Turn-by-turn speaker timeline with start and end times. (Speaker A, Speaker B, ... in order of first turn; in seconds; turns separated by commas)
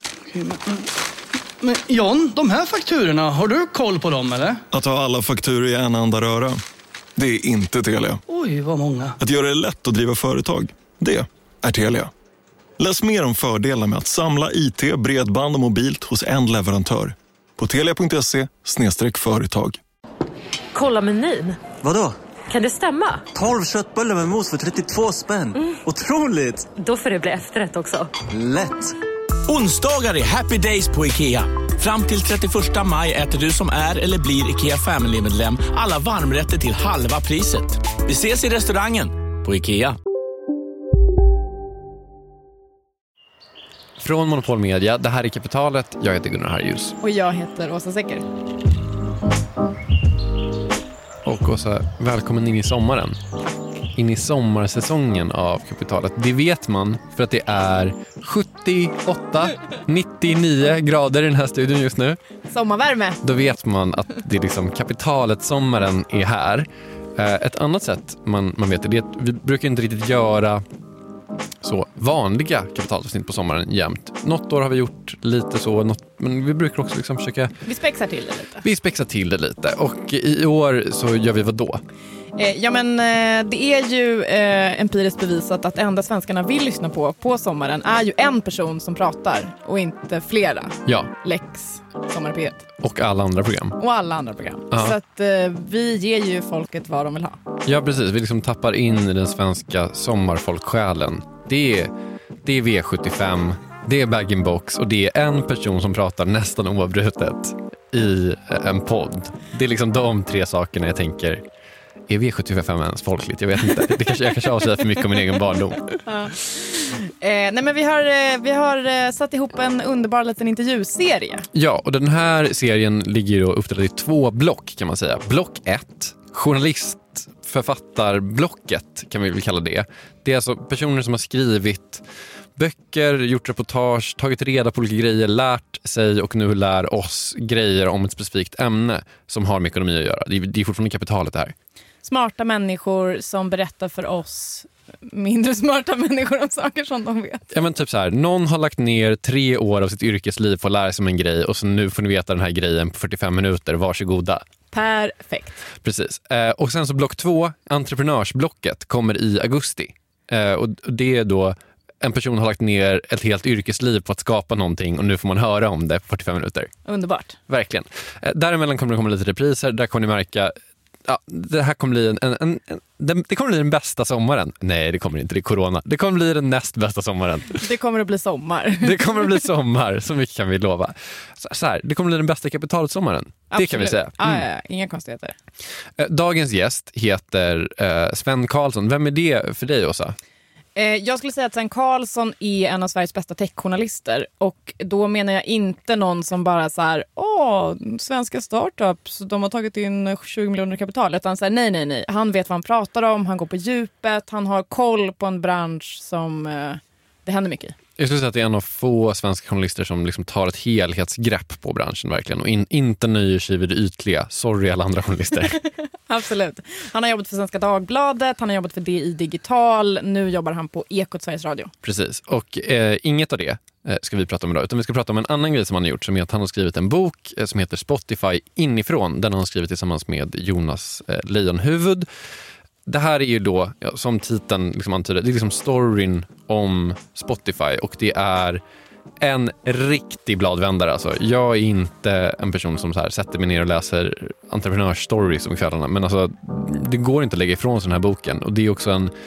Speaker A: 0.2-0.9, Speaker A: 1.6-4.6, Speaker B: 4.7-6.6, Speaker B: 7.2-8.2, Speaker A: 8.3-9.2, Speaker B: 9.2-12.1, Speaker B: 12.8-19.8, Speaker C: 20.7-21.7, Speaker D: 21.7-22.1, Speaker C: 22.5-23.3, Speaker D: 23.3-26.7, Speaker C: 26.7-28.2, Speaker D: 28.2-28.9, Speaker E: 29.5-40.0, Speaker F: 44.0-46.9, Speaker G: 47.0-48.2, Speaker F: 51.2-53.2, Speaker F: 53.9-62.2, Speaker G: 62.5-63.2, Speaker F: 63.2-70.6, Speaker F: 71.6-77.5, Speaker G: 77.7-78.6, Speaker F: 78.6-81.8, Speaker G: 82.3-92.7, Speaker F: 90.8-91.1, Speaker F: 92.8-93.8, Speaker G: 93.8-97.4, Speaker F: 94.7-95.0, Speaker F: 97.6-101.9, Speaker F: 102.4-111.4, Speaker F: 112.1-115.9, Speaker G: 116.0-121.5, Speaker F: 121.5-141.5, Speaker G: 142.0-147.4, Speaker F: 147.5-154.4, Speaker G: 154.7-155.6, Speaker F: 155.8-166.7, Speaker G: 166.8-167.4, Speaker F: 167.5-177.7, Speaker G: 177.6-179.5, Speaker F: 178.8-184.4, Speaker G: 183.5-185.3, Speaker F: 186.0-190.2, Speaker G: 190.8-207.8, Speaker F: 208.0-215.6, Speaker G: 216.1-221.7, Speaker F: 221.8-232.1, Speaker F: 232.8-238.6, Speaker F: 239.2-249.1